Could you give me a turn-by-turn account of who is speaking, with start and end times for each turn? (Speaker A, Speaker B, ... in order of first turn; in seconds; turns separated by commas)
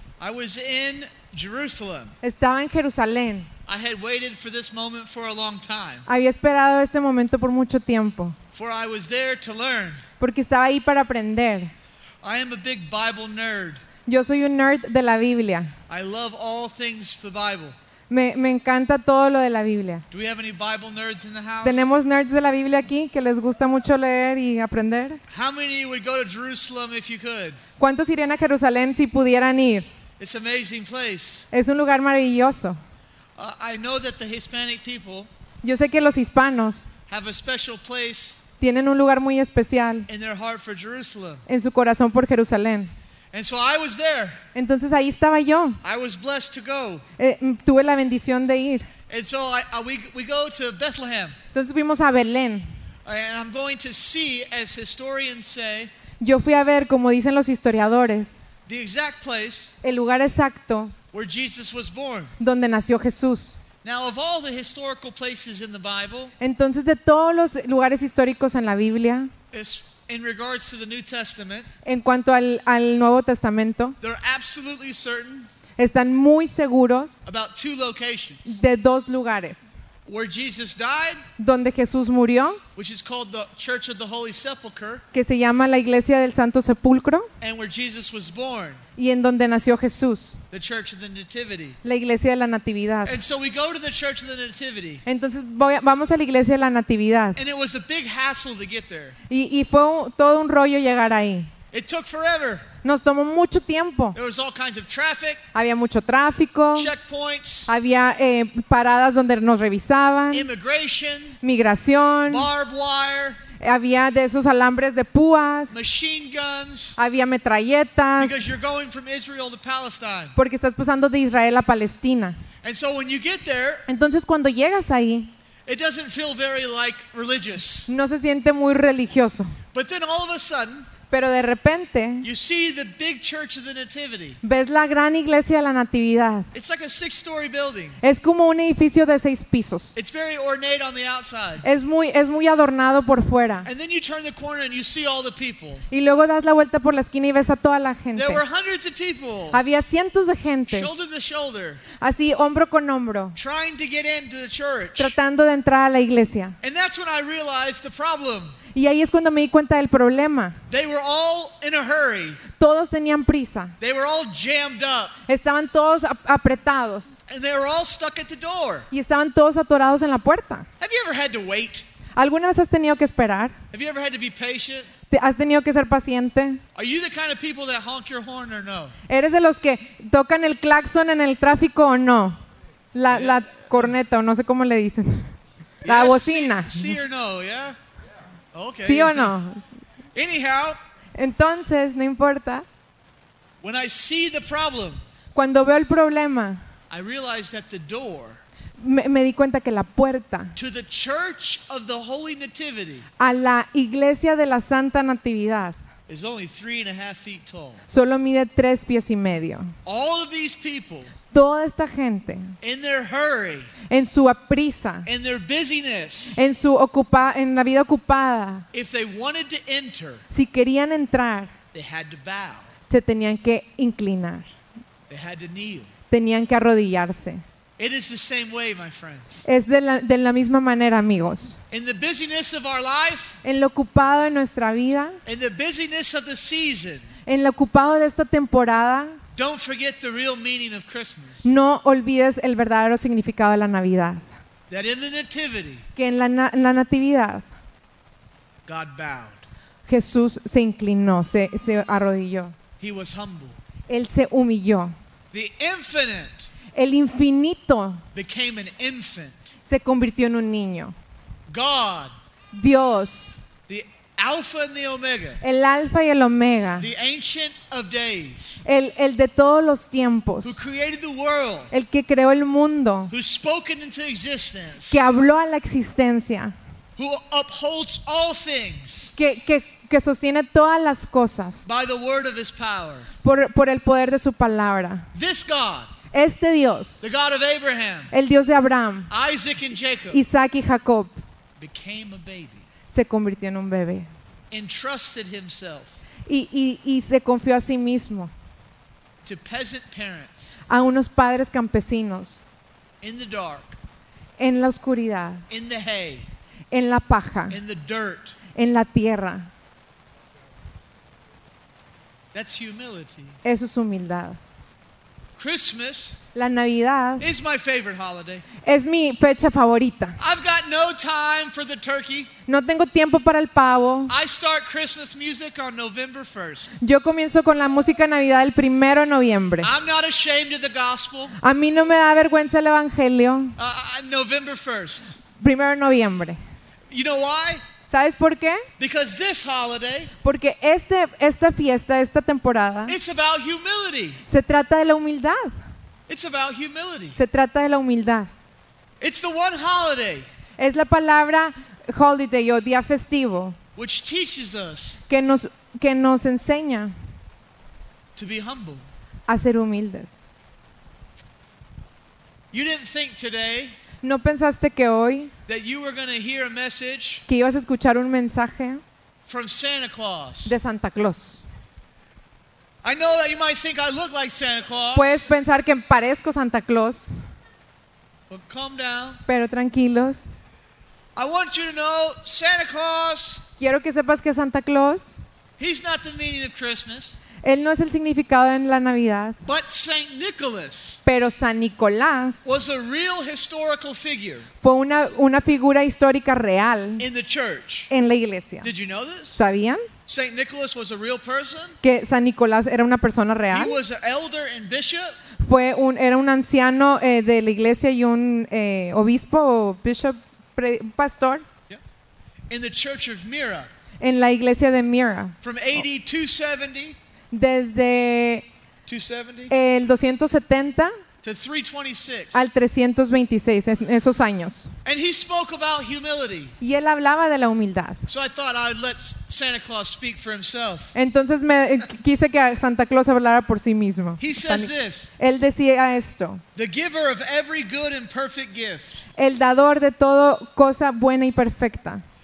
Speaker A: 0.2-2.1, Speaker B: 2.2-3.5, Speaker A: 3.7-6.0, Speaker B: 6.0-8.4, Speaker A: 8.5-10.0, Speaker B: 10.2-11.7, Speaker A: 12.2-13.8, Speaker B: 14.1-15.7, Speaker A: 15.9-17.7, Speaker B: 18.1-20.0, Speaker A: 20.1-21.9, Speaker B: 21.6-25.2, Speaker A: 25.3-27.6, Speaker B: 27.8-29.9, Speaker A: 30.2-31.5, Speaker B: 31.5-32.8, Speaker A: 33.4-35.3, Speaker B: 35.6-36.9, Speaker A: 37.1-38.4, Speaker B: 38.6-40.1, Speaker A: 40.1-41.4, Speaker B: 41.5-42.9, Speaker A: 43.3-44.4, Speaker B: 44.5-45.8, Speaker A: 45.8-47.0, Speaker B: 47.2-48.9, Speaker A: 49.1-51.4, Speaker B: 51.5-52.7, Speaker A: 53.0-55.9, Speaker B: 56.2-58.4, Speaker A: 58.7-59.7, Speaker B: 59.8-60.9, Speaker A: 61.1-62.3, Speaker B: 62.4-63.6, Speaker A: 63.8-66.3, Speaker B: 66.4-69.3, Speaker A: 69.5-71.7, Speaker B: 71.8-74.0, Speaker A: 74.0-75.5, Speaker B: 75.8-77.2, Speaker A: 77.2-78.6, Speaker B: 78.5-79.7, Speaker A: 80.0-81.2, Speaker B: 81.4-82.6, Speaker A: 82.7-85.0, Speaker B: 85.1-87.3, Speaker A: 87.4-88.8, Speaker B: 89.0-90.4, Speaker A: 90.5-91.8, Speaker B: 91.8-93.2, Speaker A: 93.0-95.0, Speaker B: 95.0-97.4, Speaker A: 97.3-99.1, Speaker B: 99.3-101.5, Speaker A: 101.7-102.7, Speaker B: 102.8-104.2, Speaker A: 104.1-105.4, Speaker B: 105.5-106.9, Speaker A: 106.7-107.7, Speaker B: 107.7-110.5, Speaker A: 110.3-111.4, Speaker B: 111.4-112.5, Speaker A: 112.3-113.4, Speaker B: 113.6-115.8, Speaker A: 115.7-117.0, Speaker B: 117.0-118.5, Speaker A: 118.2-120.3, Speaker B: 120.3-122.4, Speaker A: 122.6-123.8, Speaker B: 123.9-125.3, Speaker A: 125.7-127.9, Speaker B: 127.9-129.6, Speaker A: 129.7-130.9, Speaker B: 131.1-132.3, Speaker A: 132.2-134.4, Speaker B: 134.4-136.5, Speaker A: 136.5-138.0, Speaker B: 138.0-139.9, Speaker A: 139.9-141.6, Speaker B: 141.6-143.7, Speaker A: 143.6-145.8, Speaker B: 145.9-148.4, Speaker A: 148.1-149.6, Speaker B: 149.5-150.9, Speaker A: 150.7-151.8, Speaker B: 152.0-153.4, Speaker A: 153.3-155.2, Speaker B: 155.0-156.6, Speaker A: 156.6-158.5, Speaker B: 158.7-160.6, Speaker A: 160.7-162.4, Speaker B: 162.5-163.8, Speaker A: 163.8-165.2, Speaker B: 165.3-167.2, Speaker A: 167.3-168.9, Speaker B: 168.9-170.7, Speaker A: 170.8-171.8, Speaker B: 172.2-173.6, Speaker A: 173.7-174.9, Speaker B: 175.1-176.6, Speaker A: 176.7-178.9, Speaker B: 179.1-182.4, Speaker B: 182.9-185.3, Speaker A: 183.1-183.9, Speaker B: 185.8-187.0, Speaker A: 185.8-187.8, Speaker A: 188.5-189.3, Speaker B: 188.8-189.6, Speaker A: 190.1-190.8, Speaker B: 191.2-192.6, Speaker A: 193.6-195.0, Speaker B: 195.3-196.6, Speaker A: 196.9-198.4, Speaker B: 198.8-200.6, Speaker A: 200.6-203.1, Speaker B: 203.2-205.8, Speaker A: 206.1-207.8, Speaker B: 207.9-209.7, Speaker A: 209.8-211.1, Speaker B: 211.3-212.6, Speaker A: 212.6-213.7, Speaker B: 213.9-215.1, Speaker A: 215.1-216.4, Speaker B: 216.3-218.7, Speaker A: 218.7-220.2, Speaker B: 220.3-221.5, Speaker A: 221.7-222.7, Speaker B: 222.9-224.5, Speaker A: 225.1-225.9, Speaker B: 226.1-227.4, Speaker A: 227.8-229.4, Speaker B: 229.4-231.6, Speaker A: 231.7-233.4, Speaker B: 233.4-235.2, Speaker A: 235.2-237.1, Speaker B: 237.2-239.2, Speaker A: 239.3-241.5, Speaker B: 241.4-244.2, Speaker A: 244.7-245.8, Speaker B: 245.9-247.4, Speaker A: 248.6-249.4, Speaker B: 249.9-252.5, Speaker A: 252.8-253.6, Speaker B: 253.9-254.9, Speaker A: 255.3-256.5, Speaker B: 256.7-258.0, Speaker A: 258.1-259.5, Speaker B: 259.6-260.9, Speaker A: 261.5-262.1, Speaker B: 262.5-263.4, Speaker A: 263.7-265.4, Speaker B: 265.4-266.9, Speaker A: 266.8-268.6, Speaker B: 268.6-270.6, Speaker A: 270.4-271.7, Speaker B: 271.7-273.1, Speaker A: 273.1-275.0, Speaker B: 274.9-276.5, Speaker A: 276.9-279.1, Speaker B: 279.1-281.6, Speaker A: 281.6-283.1, Speaker B: 283.2-285.1, Speaker A: 285.1-285.9, Speaker B: 286.1-287.0, Speaker A: 287.0-288.1, Speaker B: 288.1-289.1, Speaker A: 289.1-290.2, Speaker B: 290.1-291.2, Speaker A: 291.6-292.7, Speaker B: 292.9-294.1, Speaker A: 294.5-295.9, Speaker B: 296.3-298.3, Speaker A: 299.2-300.5, Speaker B: 300.7-302.4, Speaker A: 303.0-303.8, Speaker B: 304.4-305.4, Speaker A: 305.5-306.3, Speaker B: 306.7-307.6, Speaker A: 307.5-308.4, Speaker B: 308.5-309.5, Speaker A: 312.3-313.4, Speaker B: 313.4-314.4, Speaker A: 315.4-316.2, Speaker B: 316.3-317.3, Speaker A: 317.2-318.4, Speaker B: 318.6-320.2, Speaker A: 320.2-322.3, Speaker B: 322.4-324.1, Speaker A: 324.1-326.7, Speaker B: 326.8-329.7, Speaker A: 329.6-331.4, Speaker B: 331.4-333.6, Speaker A: 333.6-335.2, Speaker B: 335.3-336.4, Speaker A: 336.9-337.6, Speaker B: 337.9-338.6, Speaker A: 338.8-340.1, Speaker B: 340.2-343.0, Speaker A: 342.9-344.2, Speaker B: 344.3-345.5, Speaker A: 346.1-347.2, Speaker B: 347.1-348.3, Speaker A: 349.0-350.2, Speaker B: 350.6-353.6, Speaker A: 353.8-355.0, Speaker B: 355.1-356.9, Speaker A: 358.1-358.9, Speaker B: 359.3-360.1, Speaker A: 362.5-363.8, Speaker B: 364.0-365.3, Speaker A: 365.5-367.2, Speaker B: 367.3-368.8, Speaker A: 369.2-370.6, Speaker B: 370.4-371.4, Speaker A: 372.8-375.3, Speaker B: 374.9-377.1, Speaker A: 378.3-379.2, Speaker B: 379.3-380.2, Speaker A: 381.1-383.5, Speaker B: 383.6-385.2, Speaker A: 385.6-387.2, Speaker B: 387.4-389.4, Speaker A: 389.4-391.0, Speaker B: 391.0-392.5, Speaker A: 392.4-394.5, Speaker B: 394.6-397.0, Speaker A: 397.0-397.9, Speaker B: 397.9-398.7, Speaker A: 398.6-399.4, Speaker B: 399.3-399.8, Speaker A: 400.1-401.8, Speaker B: 401.8-403.8, Speaker A: 403.5-405.1, Speaker B: 405.4-411.4, Speaker A: 412.5-413.7, Speaker B: 414.0-415.4, Speaker A: 415.4-417.0, Speaker B: 417.3-418.4, Speaker A: 418.9-419.5, Speaker B: 419.5-420.9, Speaker A: 421.2-422.5, Speaker B: 422.3-424.7, Speaker A: 424.8-426.6, Speaker B: 426.6-428.0, Speaker A: 428.1-430.9, Speaker B: 430.9-436.4, Speaker A: 434.2-435.1, Speaker A: 436.5-439.0, Speaker B: 439.1-442.0